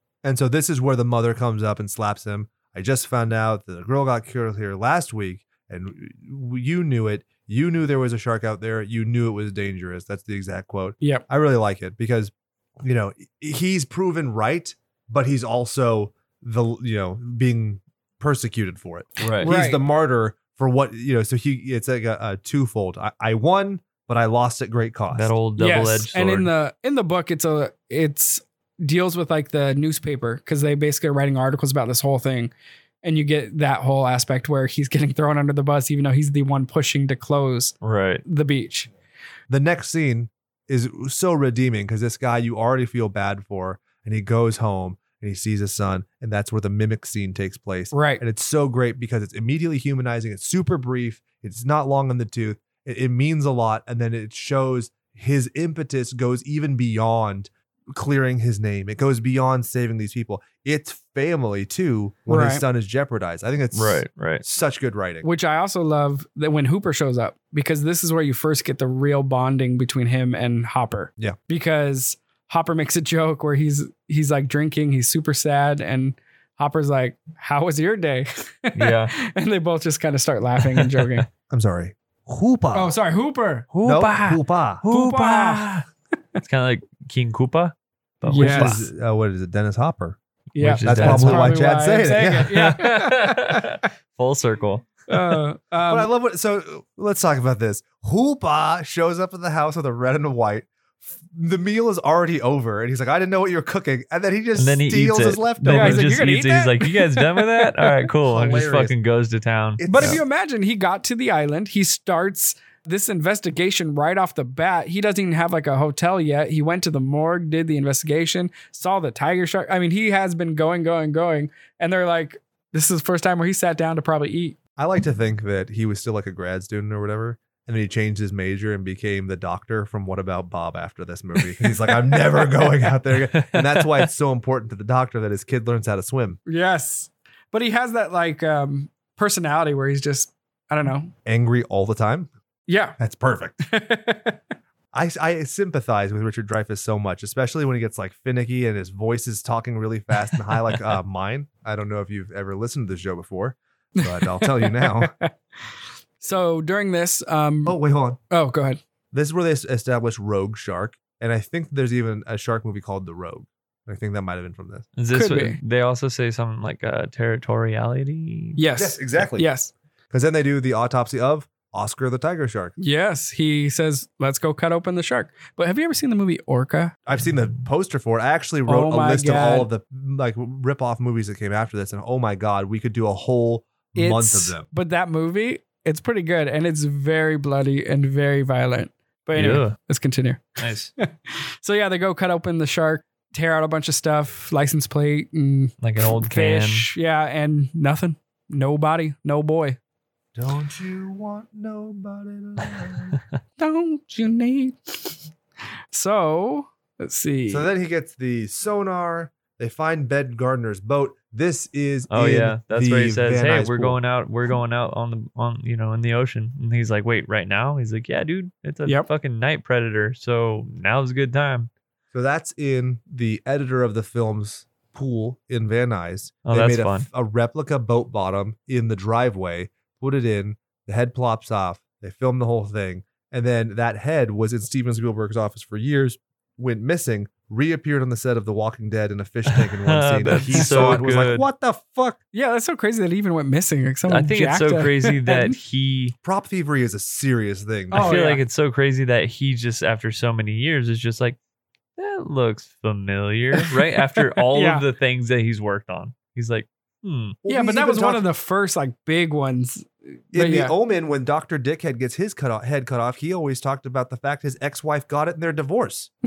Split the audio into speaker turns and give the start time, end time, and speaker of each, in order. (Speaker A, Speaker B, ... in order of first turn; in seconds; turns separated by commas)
Speaker A: 0.2-25.3, Speaker B: 19.2-19.5, Speaker C: 19.4-19.8, Speaker B: 25.1-26.5, Speaker C: 25.6-32.5, Speaker C: 33.0-38.9, Speaker B: 37.8-38.2, Speaker A: 39.5-65.2, Speaker C: 47.9-48.2, Speaker C: 62.3-62.6, Speaker B: 63.7-64.4, Speaker C: 65.2-81.3, Speaker B: 78.7-79.1, Speaker B: 80.6-81.2, Speaker A: 81.5-82.9, Speaker C: 82.7-83.7, Speaker B: 83.7-85.8, Speaker A: 83.8-84.9, Speaker C: 84.9-85.7, Speaker B: 86.4-88.9, Speaker C: 88.3-88.8, Speaker A: 88.3-90.2, Speaker C: 90.5-93.8, Speaker B: 90.6-91.5, Speaker A: 90.8-92.5, Speaker B: 92.5-95.4, Speaker C: 95.1-96.1, Speaker A: 95.9-100.7, Speaker A: 101.2-106.1, Speaker B: 104.5-110.2, Speaker C: 105.7-108.0, Speaker A: 108.3-108.9, Speaker A: 109.8-110.2, Speaker C: 109.9-124.6, Speaker A: 124.8-136.4, Speaker B: 133.3-134.1, Speaker C: 136.4-141.1, Speaker A: 141.2-142.3, Speaker C: 142.7-143.0, Speaker A: 143.0-143.6, Speaker C: 143.6-144.4, Speaker A: 144.9-155.1, Speaker C: 154.0-155.3, Speaker C: 156.2-157.8, Speaker A: 157.7-158.2, Speaker C: 158.3-158.8, Speaker A: 159.1-164.9, Speaker B: 164.9-168.6, Speaker C: 165.1-165.6, Speaker C: 168.6-169.7, Speaker A: 168.8-169.5, Speaker A: 170.1-172.7, Speaker C: 172.8-176.9, Speaker A: 177.1-184.7, Speaker C: 178.7-179.7, Speaker C: 183.9-199.8, Speaker B: 189.3-189.7, Speaker B: 190.6-190.9, Speaker B: 195.8-196.9, Speaker A: 200.3-203.2, Speaker C: 203.6-205.2, Speaker C: 205.9-207.7, Speaker A: 207.5-214.0, Speaker B: 212.1-221.7, Speaker A: 222.1-242.2, Speaker B: 226.4-227.1, Speaker B: 239.5-241.4, Speaker C: 240.4-240.9, Speaker C: 242.3-245.5, Speaker B: 244.1-246.1, Speaker A: 246.2-248.2, Speaker C: 247.9-248.4, Speaker B: 247.9-251.4, Speaker B: 252.0-257.4, Speaker C: 253.6-254.8, Speaker A: 257.4-258.2, Speaker C: 257.5-260.7, Speaker A: 260.3-266.1